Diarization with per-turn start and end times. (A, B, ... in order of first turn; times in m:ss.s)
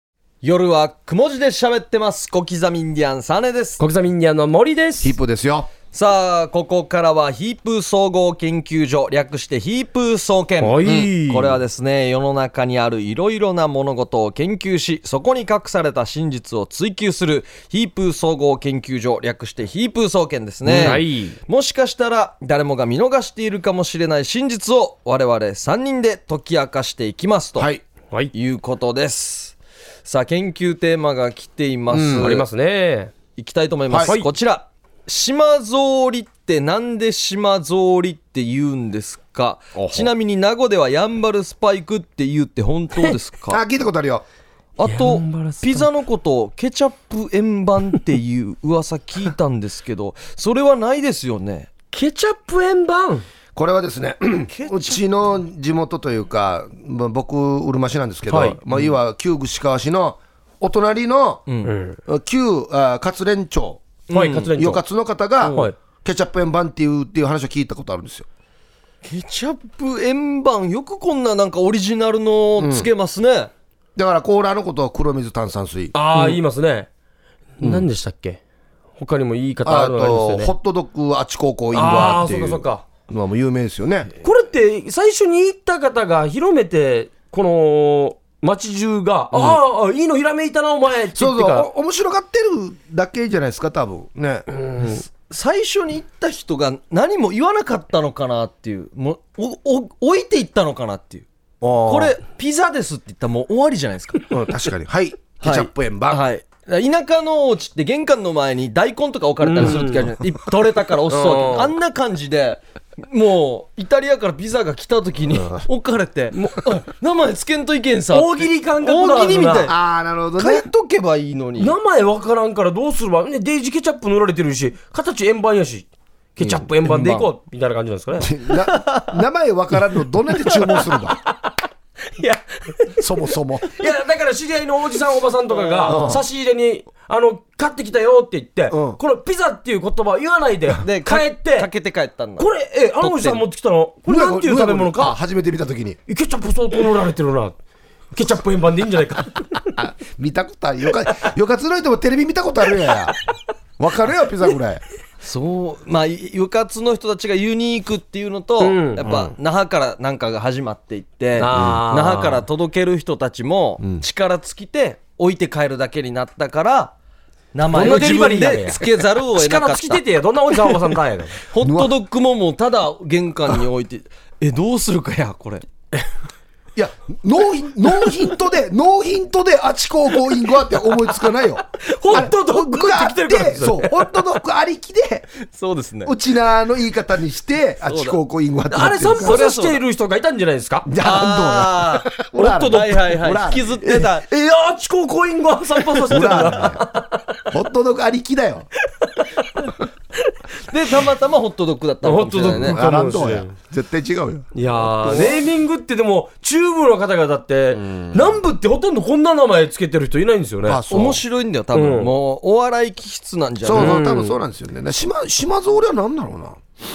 0:00.4-0:03.8 A
0:03.8-0:05.2 B
0:05.0-0:05.7 C
0:05.9-0:27.7 A
0:10.6-0:11.6 B
0:10.8-0:11.1 C
0:20.6-0:21.0 C
0:20.7-0:21.4 B
0:27.6-0:27.8 C
0:28.3-0:32.4 A
0:31.9-0:32.3 C
0:32.2-0:33.1 B
0:33.4-0:43.6 A
0:39.8-0:40.1 C
0:43.5-0:44.2 C
0:44.8-0:51.7 A
0:44.8-0:45.9 B
0:51.9-0:53.3 B
0:53.6-1:01.4 C
0:54.5-0:55.0 A
0:58.3-0:58.6 B
1:01.5-1:01.7 A
1:01.6-1:02.0 B
1:02.0-1:08.3 C
1:04.1-1:04.5 A
1:04.1-1:04.8 B
1:05.4-1:05.7 A
1:09.0-1:13.5 A
1:12.6-1:12.9 C
1:14.0-1:15.9 C
1:15.9-1:16.9 B
1:17.6-1:18.4 B
1:17.6-1:17.9 C
1:19.0-1:20.5 B
1:19.6-1:24.1 C
1:21.7-1:22.8 B
1:24.2-1:31.7 B
1:29.3-1:29.6 C
1:31.1-1:34.5 C
1:34.5-1:35.0 B
1:34.8-1:41.3 A
1:41.6-1:42.2 C
1:41.9-1:44.2 A
1:44.3-1:46.2 C
1:45.4-1:59.8 A
1:49.4-1:50.1 B
1:51.1-1:51.8 B
1:55.4-1:55.6 C
1:56.4-1:56.7 B
1:58.1-1:59.7 B
1:59.7-2:00.6 C
2:00.4-2:01.8 A
2:01.6-2:08.4 B
2:06.8-2:07.3 A
2:08.2-2:11.2 C
2:08.5-2:09.2 A
2:12.2-2:13.1 B
2:13.0-2:13.8 C
2:13.6-2:21.7 B
2:15.5-2:16.1 A
2:15.9-2:16.2 C
2:18.7-2:19.0 C
2:20.8-2:22.5 A
2:22.4-2:25.2 B
2:23.0-2:23.4 A
2:24.1-2:26.0 C
2:26.1-2:27.6 B
2:28.1-2:29.7 B
2:29.8-2:33.1 C
2:33.8-2:34.8 C
2:35.2-2:46.9 A
2:38.6-2:39.0 B
2:39.0-2:39.3 C
2:41.4-2:42.4 B
2:41.5-2:41.8 C
2:47.5-2:50.0 A
2:47.7-2:51.4 B
2:51.4-2:55.6 A
2:51.6-2:51.9 C
2:56.8-3:05.3 C
3:01.8-3:04.1 B
3:05.4-3:06.1 A
3:06.0-3:09.4 C
3:07.8-3:08.2 A
3:08.7-3:10.9 B
3:09.2-3:09.8 A
3:10.8-3:14.0 C
3:11.0-3:12.1 A
3:12.3-3:13.2 B
3:12.7-3:14.3 A
3:13.9-3:17.4 B
3:16.0-3:16.8 C
3:16.1-3:16.5 A
3:17.5-3:18.7 C
3:19.1-3:19.7 B
3:20.7-3:22.8 A
3:22.0-3:23.5 B
3:22.4-3:25.3 C
3:24.6-3:30.8 B
3:25.1-3:25.4 A
3:27.7-3:28.4 C
3:30.6-3:31.2 C
3:30.9-3:34.0 A
3:31.7-3:32.2 B
3:33.6-3:36.6 C
3:33.7-3:34.4 B